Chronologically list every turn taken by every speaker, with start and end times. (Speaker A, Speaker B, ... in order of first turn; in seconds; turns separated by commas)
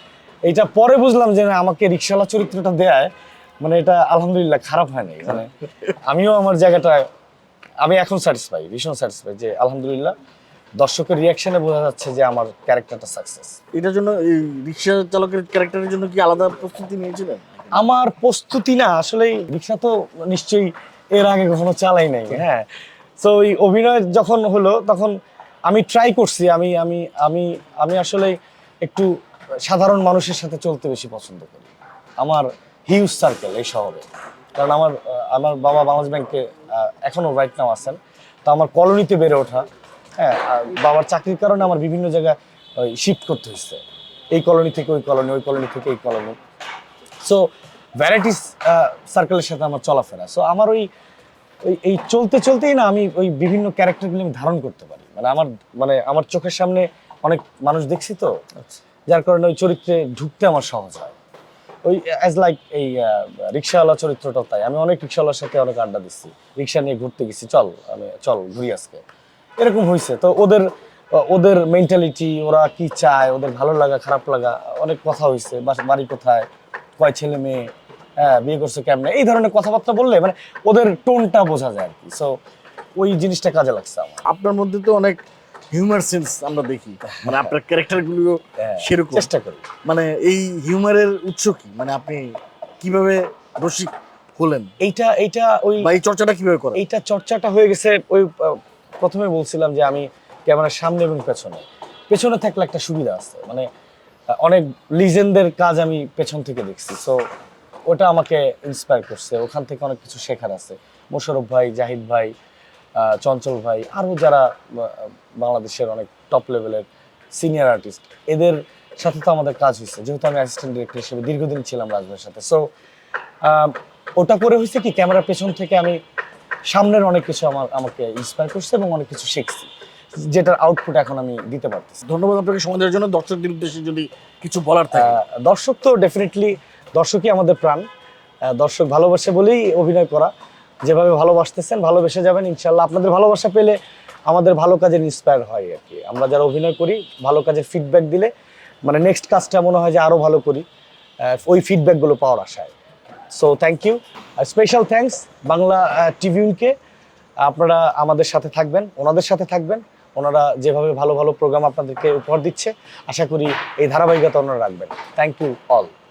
Speaker A: 0.4-3.1, Speaker A: 3.6-7.1, Speaker A: 7.8-10.1, Speaker A: 10.8-13.6, Speaker B: 13.7-17.8, Speaker A: 17.7-22.6, Speaker A: 23.2-25.1, Speaker A: 25.7-29.1, Speaker A: 29.6-34.0, Speaker A: 34.5-39.6, Speaker A: 40.2-43.8, Speaker A: 44.3-46.4, Speaker A: 48.0-50.9, Speaker A: 51.6-58.5, Speaker A: 59.1-61.1, Speaker A: 61.8-69.0, Speaker A: 69.6-76.5, Speaker A: 77.0-82.3, Speaker A: 83.0-84.2, Speaker B: 84.2-85.2, Speaker B: 85.7-89.3, Speaker A: 88.6-89.6, Speaker B: 89.8-94.7, Speaker A: 94.8-95.9, Speaker B: 95.8-96.8, Speaker A: 96.7-103.7, Speaker A: 104.4-107.2, Speaker A: 107.9-112.3, Speaker A: 113.0-122.6, Speaker A: 123.4-126.0, Speaker A: 126.7-129.7, Speaker A: 130.2-132.0, Speaker B: 132.0-135.2, Speaker A: 134.9-137.8, Speaker A: 138.5-140.3, Speaker A: 140.8-143.8, Speaker A: 144.3-148.3, Speaker A: 148.8-150.6, Speaker A: 151.2-152.7, Speaker A: 153.3-156.7, Speaker A: 157.4-165.9